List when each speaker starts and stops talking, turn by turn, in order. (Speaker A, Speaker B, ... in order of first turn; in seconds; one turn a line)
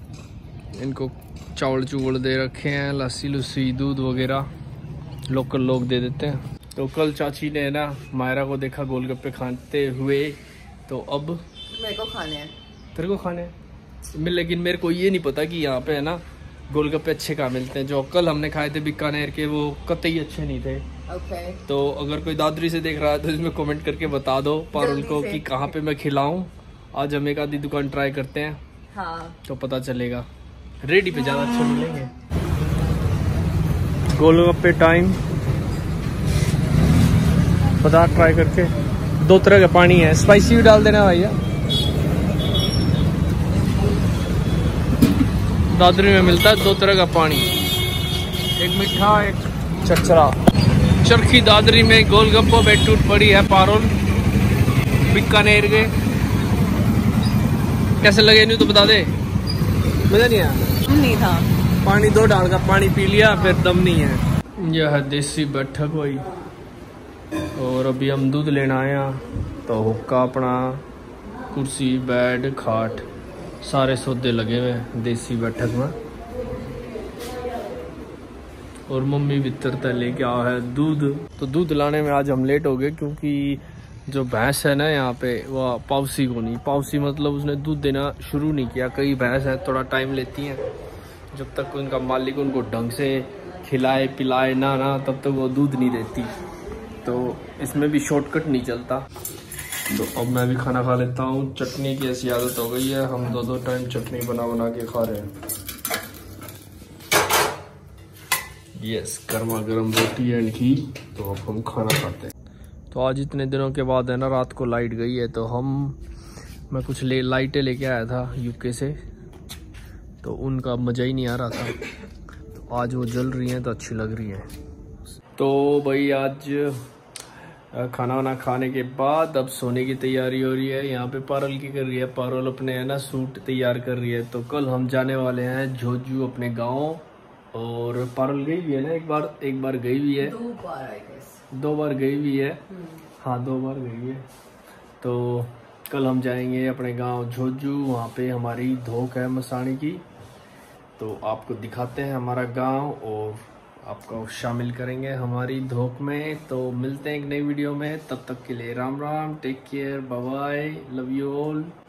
Speaker A: 0.7-4.5
Speaker A: 5.3-11.4
Speaker B: 11.7-12.5
Speaker A: 12.9-13.5
Speaker A: 14.1-20.8
Speaker B: 21.1-21.6
Speaker A: 21.6-28.6
Speaker B: 24.7-25.7
Speaker B: 28.9-29.4
Speaker A: 29.4-30.3
Speaker A: 30.8-32.1
Speaker A: 34.1-35.2
Speaker A: 37.8-41.4
Speaker A: 45.7-47.5
Speaker A: 48.6-50.4
Speaker A: 51.0-53.9
Speaker A: 55.0-55.9
Speaker A: 58.0-59.1
Speaker A: 60.1-60.8
Speaker B: 60.9-61.5
Speaker A: 61.8-66.2
Speaker A: 67.5-70.8
Speaker A: 71.5-73.0
Speaker A: 73.6-75.9
Speaker A: 78.9-90.6
Speaker A: 91.3-96.3
Speaker A: 97.0-99.0
Speaker A: 99.9-105.3
Speaker A: 108.8-112.3
Speaker A: 112.9-116.0
Speaker A: 116.7-119.0
Speaker A: 120.2-121.8
Speaker A: 122.5-124.5
Speaker A: 125.3-126.8
Speaker A: 127.7-137.0
Speaker A: 137.5-140.4
Speaker B: 140.2-141.4
Speaker A: 141.5-142.6
Speaker B: 142.7-143.0
Speaker A: 143.2-144.2
Speaker A: 145.0-150.0
Speaker A: 151.0-161.7